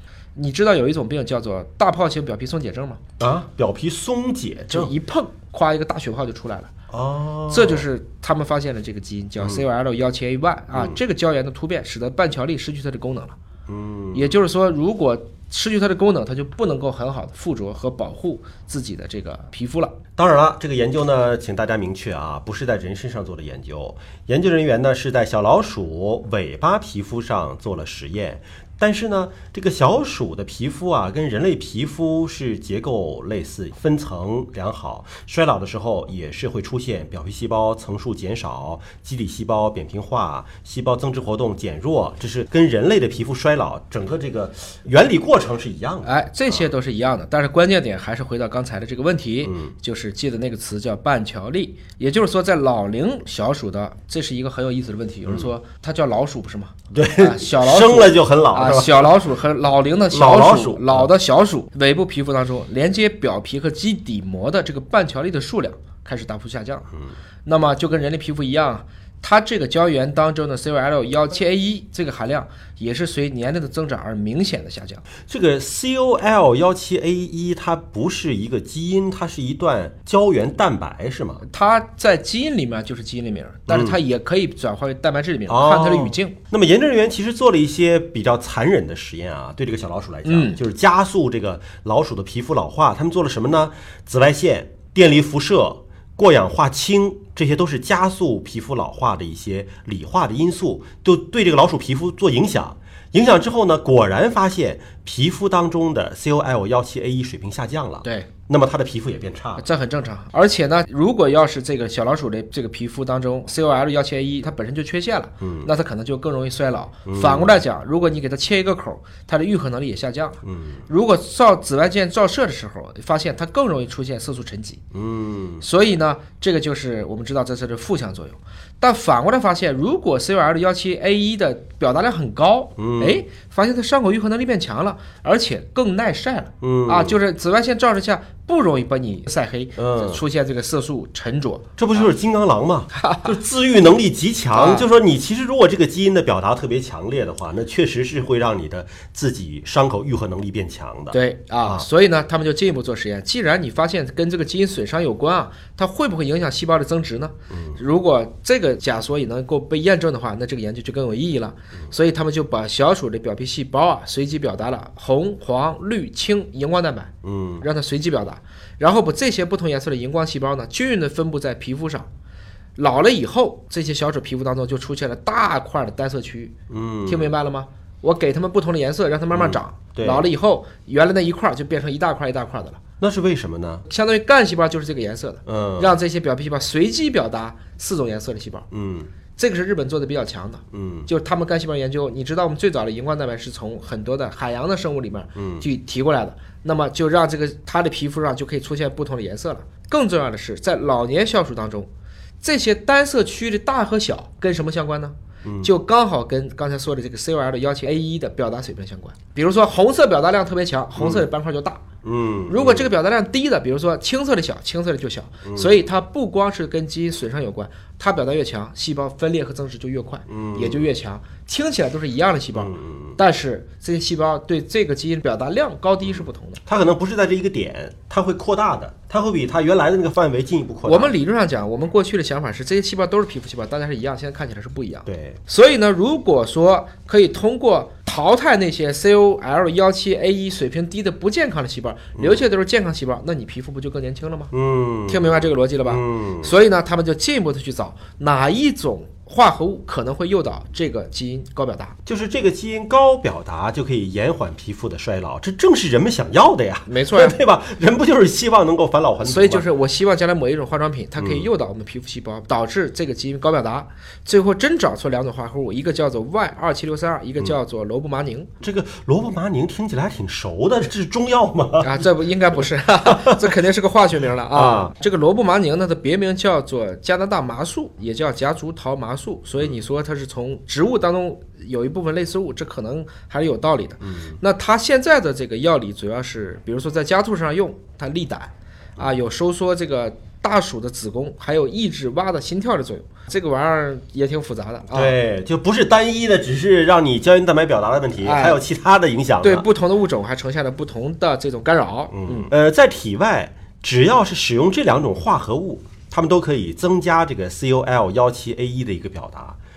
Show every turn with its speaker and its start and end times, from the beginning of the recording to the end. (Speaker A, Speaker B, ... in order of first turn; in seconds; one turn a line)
Speaker A: 0.3-3.0
Speaker B: 3.2-4.9
Speaker A: 4.7-6.7
Speaker B: 6.9-7.8
Speaker A: 7.5-13.3
Speaker B: 9.4-9.6
Speaker B: 10.7-11.0
Speaker B: 13.7-14.3
Speaker A: 14.1-19.9
Speaker B: 20.2-46.7
Speaker A: 46.0-66.9
Speaker B: 49.4-49.7
Speaker B: 56.9-59.2
Speaker B: 60.1-61.1
Speaker A: 67.4-75.0
Speaker B: 75.3-81.4
Speaker A: 81.5-86.4
Speaker B: 83.7-84.0
Speaker B: 85.5-109.7
Speaker A: 90.2-90.6
Speaker A: 108.0-108.3
Speaker A: 109.6-124.8
Speaker B: 115.4-115.7
Speaker B: 117.0-117.5
Speaker B: 120.4-120.8
Speaker B: 124.9-125.7
Speaker A: 125.6-142.0
Speaker B: 132.8-133.2
Speaker B: 136.6-137.2
Speaker B: 139.8-140.2
Speaker B: 141.8-151.8
Speaker A: 142.9-143.3
Speaker A: 144.5-144.9
Speaker A: 151.1-172.1
Speaker B: 157.5-157.8
Speaker B: 167.2-167.7
Speaker A: 172.8-176.5
Speaker B: 176.7-177.3
Speaker A: 177.1-182.8
Speaker B: 179.3-180.3
Speaker B: 183.0-183.8
Speaker A: 183.9-188.7
Speaker B: 185.4-185.9
Speaker B: 188.7-189.1
Speaker A: 189.3-201.9
Speaker B: 190.7-191.1
Speaker B: 195.3-195.7
Speaker A: 202.4-211.8
Speaker B: 205.4-205.7
Speaker B: 210.9-211.2
Speaker B: 212.0-212.9
Speaker A: 212.5-226.6
Speaker B: 215.4-215.8
Speaker B: 220.3-220.9
Speaker B: 222.5-223.2
Speaker B: 226.0-231.1
Speaker A: 230.8-244.5
Speaker B: 235.1-235.4
Speaker B: 242.2-242.4
Speaker B: 244.5-246.6
Speaker A: 245.1-251.9
Speaker B: 252.1-259.7
Speaker A: 256.9-257.4
Speaker A: 259.2-268.5
Speaker B: 261.2-261.5
Speaker B: 268.6-272.0
Speaker A: 271.8-295.1
Speaker B: 274.5-274.9
Speaker B: 284.0-284.4
Speaker B: 294.9-299.6
Speaker A: 298.2-298.6
Speaker A: 299.4-302.5
Speaker B: 302.1-309.6